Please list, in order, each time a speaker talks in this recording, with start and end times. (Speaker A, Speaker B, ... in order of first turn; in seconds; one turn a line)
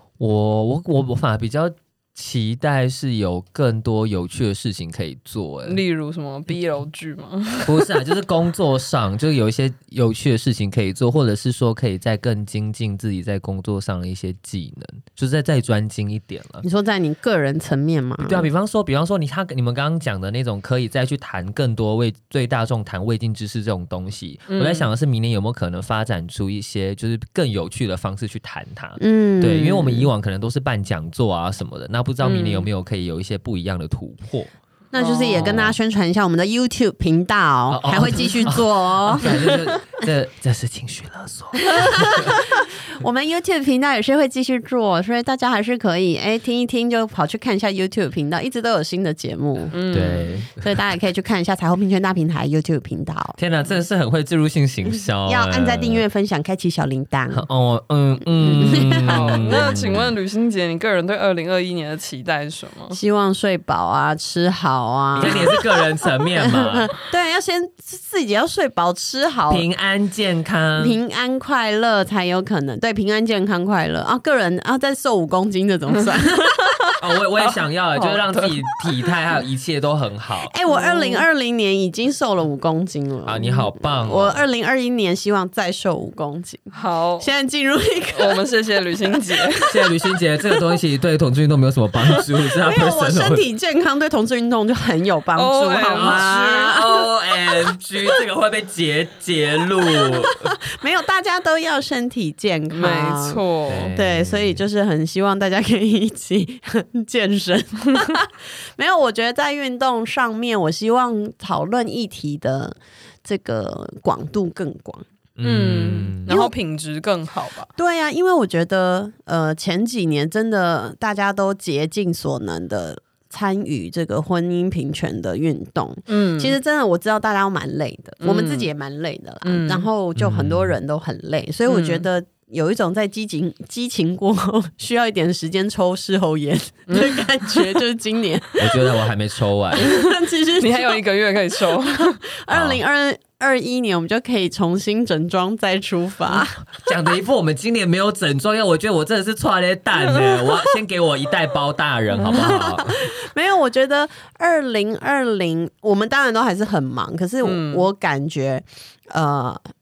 Speaker A: 0.2-5.8
Speaker B: 5.6-7.9
Speaker A: 7.6-16.6
Speaker C: 16.6-18.5
Speaker A: 18.2-34.5
Speaker B: 24.5-24.9
Speaker C: 29.0-30.1
Speaker B: 32.2-32.6
Speaker C: 34.9-39.5
Speaker B: 34.9-35.5
Speaker A: 35.3-35.8
Speaker A: 37.7-42.4
Speaker B: 39.2-39.5
Speaker C: 41.6-49.8
Speaker B: 49.7-50.5
Speaker A: 49.9-50.7
Speaker C: 50.6-53.4
Speaker A: 53.4-56.0
Speaker C: 55.2-57.5
Speaker A: 57.3-60.1
Speaker C: 58.4-59.7
Speaker B: 59.0-63.0
Speaker C: 62.9-69.7
Speaker A: 65.2-66.9
Speaker A: 69.5-71.0
Speaker C: 70.8-76.6
Speaker B: 76.3-76.9
Speaker A: 77.0-80.5
Speaker B: 77.9-78.7
Speaker C: 80.5-88.4
Speaker B: 80.7-81.2
Speaker A: 83.2-84.4
Speaker B: 86.7-87.3
Speaker B: 88.1-90.0
Speaker A: 89.7-93.4
Speaker C: 92.6-97.1
Speaker B: 95.3-96.3
Speaker A: 95.9-100.6
Speaker C: 99.9-115.0
Speaker B: 102.7-103.9
Speaker A: 103.7-104.6
Speaker A: 115.3-116.3
Speaker B: 115.4-117.7
Speaker C: 116.3-116.5
Speaker C: 117.8-139.0
Speaker B: 126.1-126.5
Speaker B: 128.2-128.7
Speaker B: 129.4-129.9
Speaker A: 130.2-130.7
Speaker B: 131.7-132.1
Speaker B: 136.9-137.7
Speaker A: 138.6-139.9
Speaker C: 139.7-141.0
Speaker B: 140.6-142.2
Speaker C: 141.7-146.6
Speaker A: 142.5-142.8
Speaker A: 146.4-153.1
Speaker B: 150.0-150.7
Speaker C: 152.3-159.6
Speaker B: 157.4-157.9